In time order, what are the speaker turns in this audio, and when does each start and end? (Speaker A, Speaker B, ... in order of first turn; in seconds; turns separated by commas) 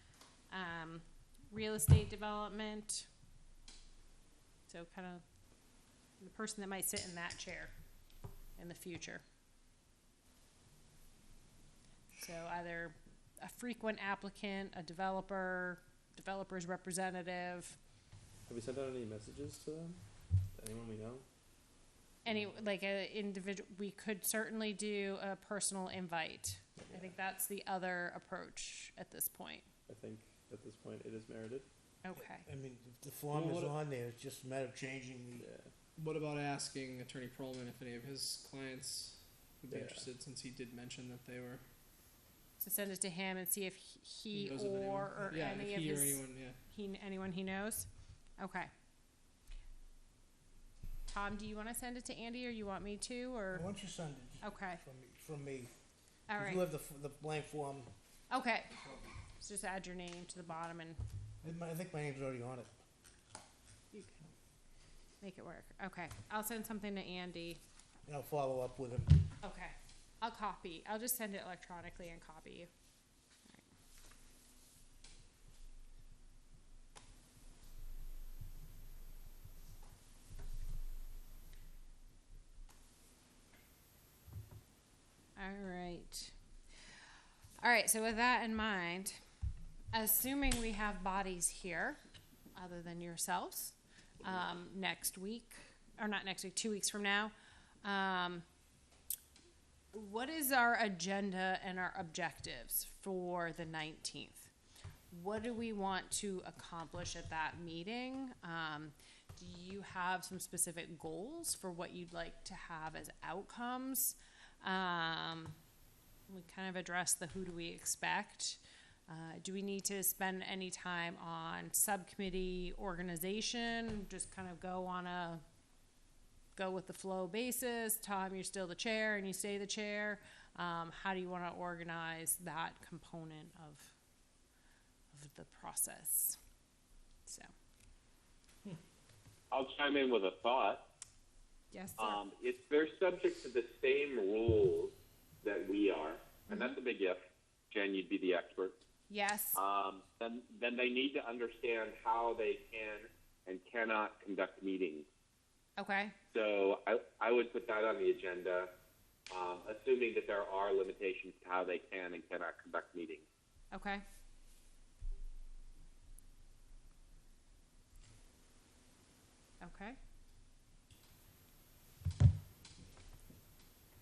Speaker A: 0.5-3.0, Speaker A: 4.7-5.2, Speaker A: 6.2-7.7, Speaker A: 8.6-9.2, Speaker A: 12.2-17.8, Speaker B: 18.5-20.0, Speaker B: 20.6-21.2, Speaker A: 22.2-29.6, Speaker B: 29.9-31.7, Speaker A: 32.0-32.5, Speaker C: 32.2-35.5, Speaker D: 33.3-33.7, Speaker B: 35.4-35.7, Speaker D: 36.0-41.6, Speaker B: 39.7-40.0, Speaker A: 42.6-48.7, Speaker D: 44.3-46.6, Speaker A: 51.1-53.7, Speaker C: 53.5-55.7, Speaker A: 54.4-54.8, Speaker A: 56.3-56.6, Speaker C: 56.4-57.9, Speaker A: 58.3-58.8, Speaker C: 58.8-59.1, Speaker A: 59.3-61.0, Speaker C: 61.4-62.7, Speaker A: 63.9-64.2, Speaker A: 65.2-67.6, Speaker C: 68.0-69.2, Speaker A: 69.4-72.7, Speaker A: 85.3-86.3, Speaker A: 87.6-89.2, Speaker A: 89.9-92.0, Speaker A: 92.5-97.3, Speaker A: 97.8-98.4, Speaker A: 99.9-104.5, Speaker A: 105.1-115.5, Speaker A: 116.3-125.4, Speaker A: 126.5-133.9, Speaker A: 135.1-136.4, Speaker E: 139.5-140.8, Speaker A: 141.7-142.2, Speaker E: 142.0-148.8, Speaker A: 146.5-146.8, Speaker A: 149.1-149.6, Speaker E: 149.5-155.1, Speaker A: 155.8-156.2, Speaker E: 156.3-158.7, Speaker E: 159.3-163.2, Speaker A: 163.7-164.0, Speaker A: 169.6-170.0